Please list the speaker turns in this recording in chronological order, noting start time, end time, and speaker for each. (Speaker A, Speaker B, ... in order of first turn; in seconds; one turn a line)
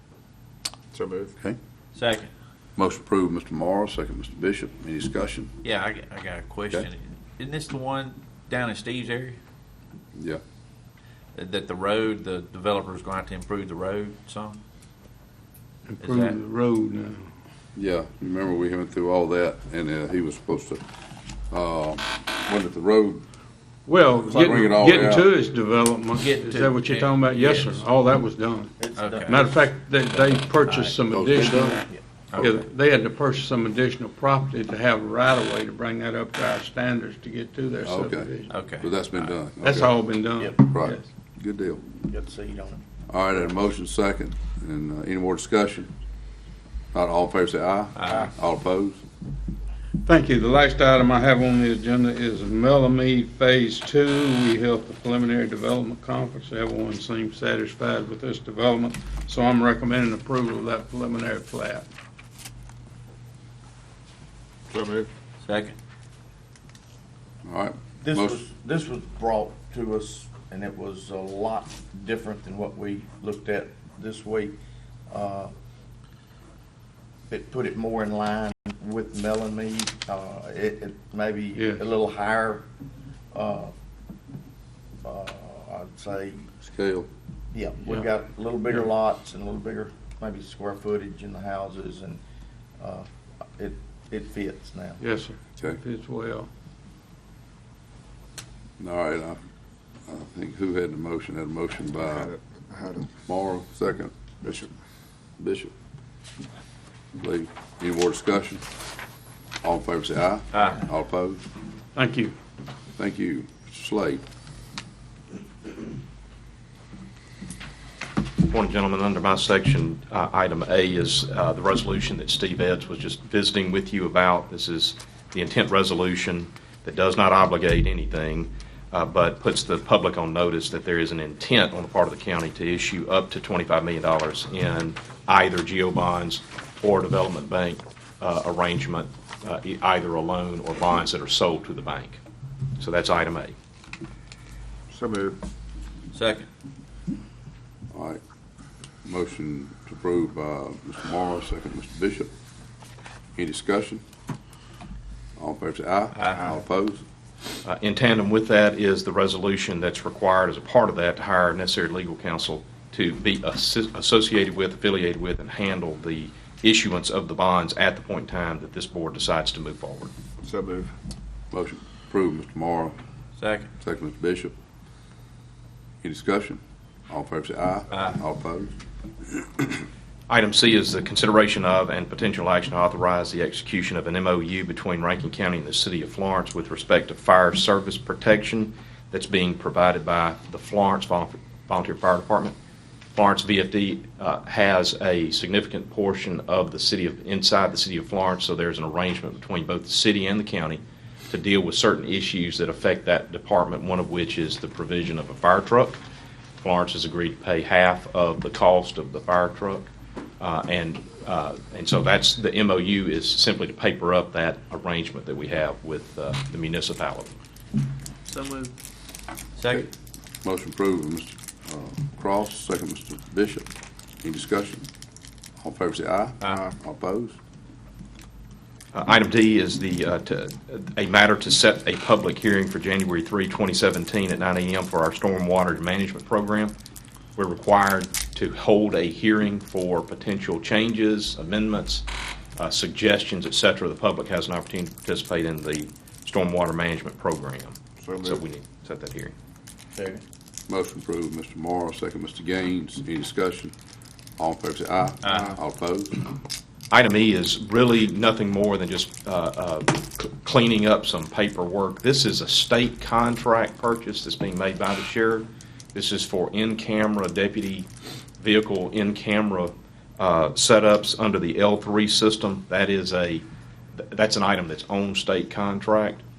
Speaker A: 0.9-1.3
Speaker B: 1.9-2.3
Speaker C: 2.8-5.6
Speaker B: 5.6-9.4
Speaker C: 10.2-10.4
Speaker B: 11.3-14.6
Speaker D: 15.9-17.3
Speaker B: 16.0-16.4
Speaker C: 17.7-20.8
Speaker C: 21.5-23.2
Speaker D: 23.9-38.5
Speaker C: 24.3-25.3
Speaker B: 26.1-27.9
Speaker E: 28.8-29.5
Speaker B: 28.9-29.4
Speaker B: 30.1-31.0
Speaker C: 31.1-31.7
Speaker B: 32.3-32.6
Speaker C: 37.8-39.9
Speaker B: 38.5-39.3
Speaker D: 39.6-41.0
Speaker C: 40.6-41.8
Speaker E: 42.1-43.6
Speaker C: 43.1-45.9
Speaker C: 46.9-49.0
Speaker B: 48.0-48.3
Speaker D: 50.0-61.9
Speaker A: 64.7-65.1
Speaker B: 65.4-65.7
Speaker C: 67.4-68.4
Speaker E: 68.0-74.5
Speaker E: 75.1-75.5
Speaker E: 77.3-82.6
Speaker D: 81.5-81.8
Speaker E: 83.3-83.7
Speaker E: 85.0-86.5
Speaker C: 86.6-87.1
Speaker E: 87.5-92.2
Speaker E: 92.8-95.0
Speaker D: 95.0-96.5
Speaker C: 98.8-99.4
Speaker C: 100.1-102.3
Speaker A: 102.1-103.1
Speaker C: 103.3-104.7
Speaker C: 105.4-105.7
Speaker C: 107.2-108.6
Speaker C: 109.6-111.4
Speaker D: 111.9-112.3
Speaker C: 113.0-114.2
Speaker F: 118.4-142.2
Speaker F: 142.8-143.5
Speaker A: 144.9-145.4
Speaker B: 146.1-146.5
Speaker C: 147.9-148.2
Speaker C: 149.0-152.3
Speaker C: 153.3-154.0
Speaker C: 155.4-157.0
Speaker B: 156.2-156.4
Speaker F: 157.6-170.1
Speaker A: 170.4-170.9
Speaker C: 171.5-172.9
Speaker B: 173.4-173.7
Speaker C: 173.8-174.5
Speaker C: 176.0-178.7
Speaker F: 180.3-192.5
Speaker F: 193.1-206.0
Speaker F: 206.6-217.3
Speaker B: 218.3-218.7
Speaker B: 219.6-219.9
Speaker C: 220.4-223.7
Speaker C: 224.2-224.9
Speaker C: 225.6-227.4
Speaker F: 228.9-236.7
Speaker F: 237.3-242.0
Speaker F: 242.6-249.3
Speaker A: 248.0-248.4
Speaker B: 250.0-250.2
Speaker C: 250.7-253.7
Speaker C: 254.4-256.2
Speaker F: 256.9-267.9
Speaker F: 268.4-273.4
Speaker F: 274.0-276.2